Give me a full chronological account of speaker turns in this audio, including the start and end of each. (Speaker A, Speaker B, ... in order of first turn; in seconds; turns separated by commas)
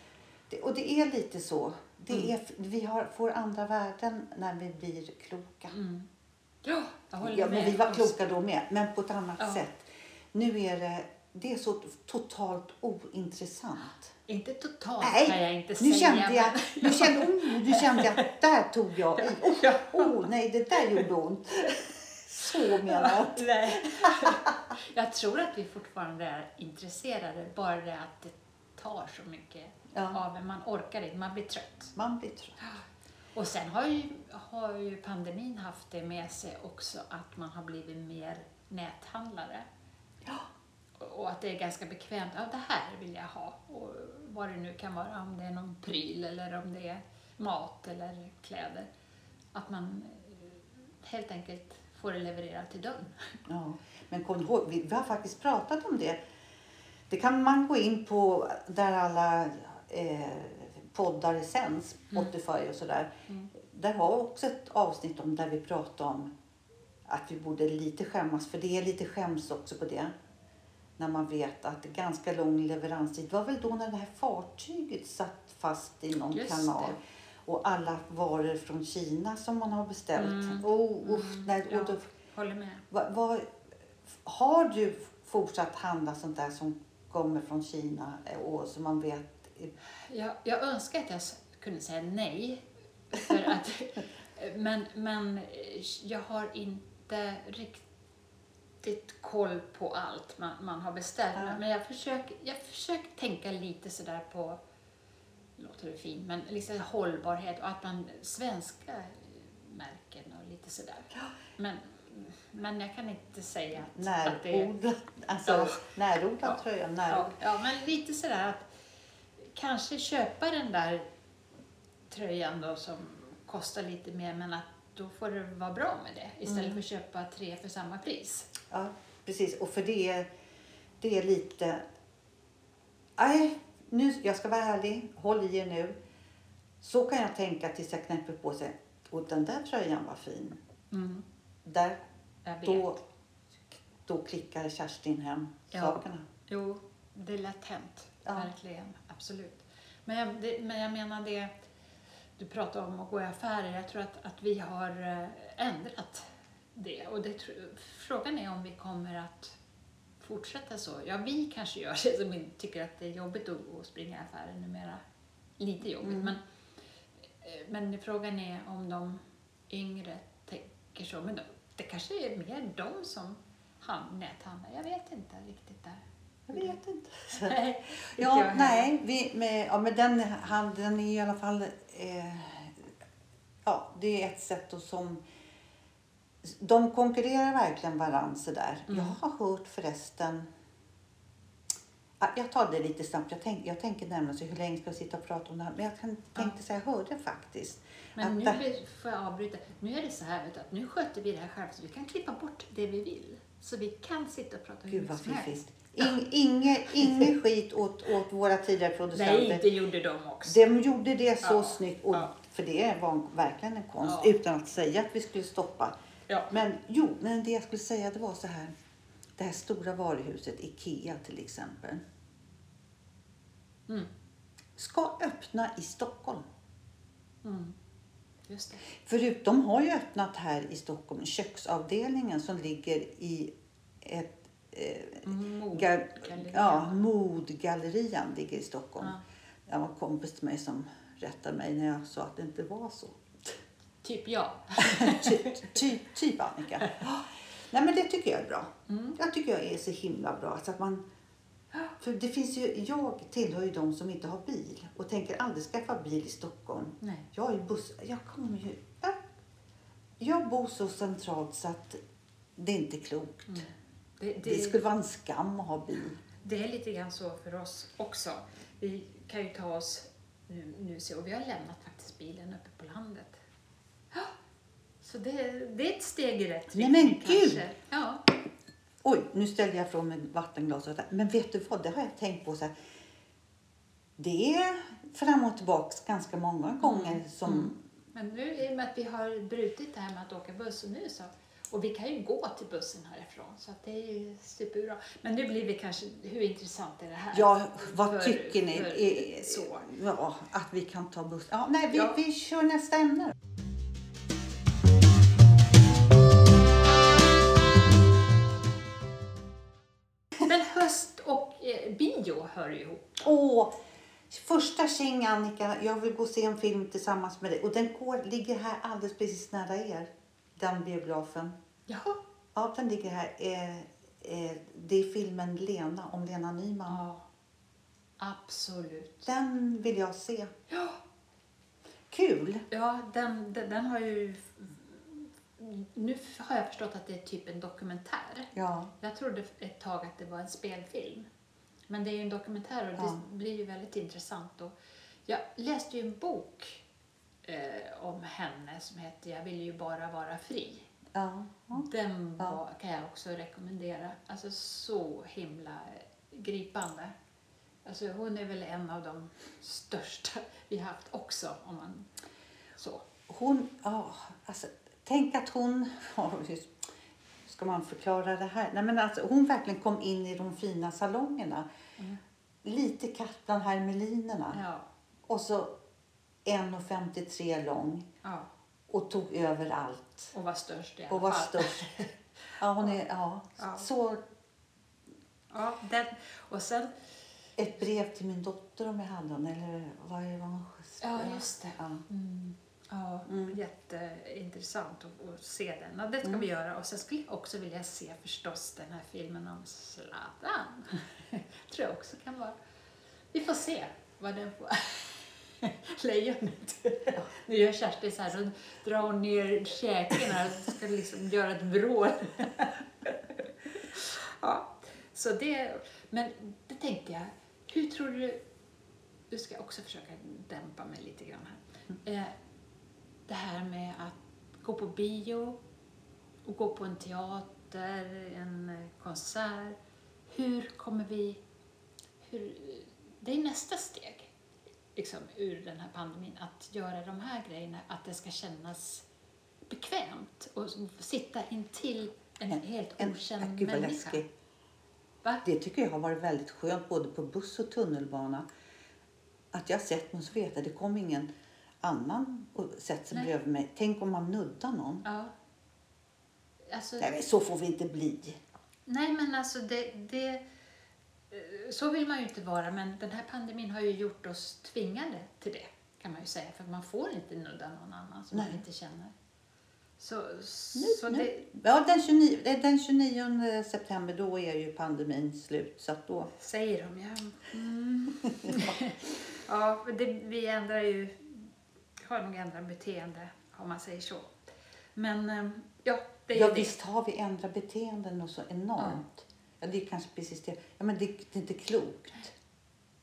Speaker A: 0.5-5.8, Speaker B: 5.7-6.1, Speaker B: 6.6-8.1, Speaker A: 7.2-14.1, Speaker B: 14.3-18.3, Speaker A: 15.0-24.6, Speaker B: 19.1-20.3, Speaker B: 22.3-31.9, Speaker A: 29.9-30.2, Speaker A: 31.9-32.6, Speaker B: 33.3-39.6, Speaker A: 40.2-40.5, Speaker B: 41.0-48.9, Speaker B: 49.5-53.4, Speaker A: 53.5-56.2, Speaker A: 57.1-66.3, Speaker A: 67.1-70.1, Speaker A: 71.0-82.0, Speaker B: 76.3-77.0, Speaker B: 80.2-82.8, Speaker A: 82.9-83.5, Speaker A: 84.1-89.7, Speaker B: 90.1-97.8, Speaker B: 98.8-104.6, Speaker A: 101.3-101.6, Speaker B: 105.6-114.7, Speaker A: 113.9-117.4, Speaker B: 115.4-115.8, Speaker B: 116.4-118.7, Speaker B: 119.5-121.1, Speaker B: 122.1-128.5, Speaker A: 126.5-126.8, Speaker A: 128.7-130.3, Speaker A: 131.0-131.8, Speaker A: 133.2-135.9, Speaker A: 136.8-140.6, Speaker B: 140.9-141.2, Speaker A: 141.6-142.0, Speaker B: 142.4-143.0, Speaker A: 142.6-143.0, Speaker A: 144.0-146.2, Speaker B: 145.7-151.5, Speaker A: 148.2-148.5, Speaker B: 152.4-159.6, Speaker B: 160.2-165.0, Speaker B: 165.6-166.4, Speaker A: 166.0-166.3, Speaker B: 167.4-176.8, Speaker A: 176.5-177.6, Speaker B: 177.3-178.9, Speaker A: 178.2-182.9, Speaker A: 183.6-185.2, Speaker A: 186.4-190.5, Speaker B: 188.9-189.2, Speaker A: 192.2-198.6, Speaker B: 198.2-205.5, Speaker A: 204.9-209.6, Speaker B: 209.1-210.8, Speaker A: 210.4-215.9, Speaker B: 211.4-212.3, Speaker B: 214.0-214.3, Speaker B: 216.3-216.5, Speaker A: 216.5-218.7, Speaker A: 219.4-222.0, Speaker A: 224.8-226.4, Speaker B: 227.4-227.8, Speaker B: 228.5-228.8, Speaker A: 229.0-233.5, Speaker A: 234.0-239.1, Speaker B: 235.2-237.0, Speaker A: 239.7-243.6, Speaker B: 244.0-245.6, Speaker A: 244.8-251.0, Speaker B: 248.9-249.2, Speaker A: 252.0-259.2, Speaker B: 257.0-257.2, Speaker A: 260.2-262.0, Speaker A: 262.6-263.6, Speaker B: 263.5-264.8, Speaker A: 264.4-266.2, Speaker B: 266.4-273.4, Speaker B: 275.0-278.2, Speaker A: 276.7-277.6, Speaker A: 279.0-282.7, Speaker A: 284.2-287.8, Speaker B: 286.8-299.9, Speaker A: 297.3-303.3, Speaker B: 310.4-313.3, Speaker A: 313.2-313.7, Speaker A: 314.3-321.6, Speaker B: 321.9-322.2, Speaker A: 322.5-327.0, Speaker B: 326.9-327.2, Speaker B: 328.2-329.3, Speaker A: 329.2-330.5, Speaker B: 330.7-331.0, Speaker A: 332.1-332.6, Speaker B: 332.7-341.3, Speaker A: 338.5-338.9, Speaker B: 341.9-346.8, Speaker A: 342.9-343.2, Speaker B: 347.4-350.9, Speaker A: 351.1-351.9, Speaker B: 351.7-357.1, Speaker B: 357.8-362.1, Speaker B: 362.8-363.1, Speaker A: 363.3-366.8, Speaker A: 367.4-371.6, Speaker A: 372.6-374.6, Speaker B: 374.5-374.9, Speaker A: 375.3-375.7, Speaker A: 376.4-378.1, Speaker A: 378.9-380.3, Speaker B: 380.3-383.0, Speaker A: 381.1-382.0, Speaker A: 382.6-384.2, Speaker B: 383.6-383.9, Speaker B: 385.5-386.9, Speaker A: 387.6-392.0, Speaker B: 391.0-402.5, Speaker A: 393.3-393.6, Speaker B: 403.3-418.4, Speaker B: 419.3-422.3, Speaker B: 423.3-425.6, Speaker B: 426.4-429.8, Speaker B: 430.3-431.4, Speaker B: 432.2-434.3, Speaker B: 434.9-439.1, Speaker B: 439.7-444.2, Speaker A: 442.5-444.2, Speaker A: 445.4-448.5, Speaker A: 449.5-451.3, Speaker A: 451.8-455.0, Speaker B: 455.0-455.3, Speaker B: 456.7-457.1, Speaker A: 457.0-458.4, Speaker B: 458.9-460.4, Speaker B: 461.3-469.1, Speaker A: 468.3-468.6, Speaker B: 470.0-471.5, Speaker A: 470.7-476.3, Speaker B: 476.3-484.3, Speaker A: 478.4-478.8, Speaker B: 484.9-486.7, Speaker A: 486.3-492.3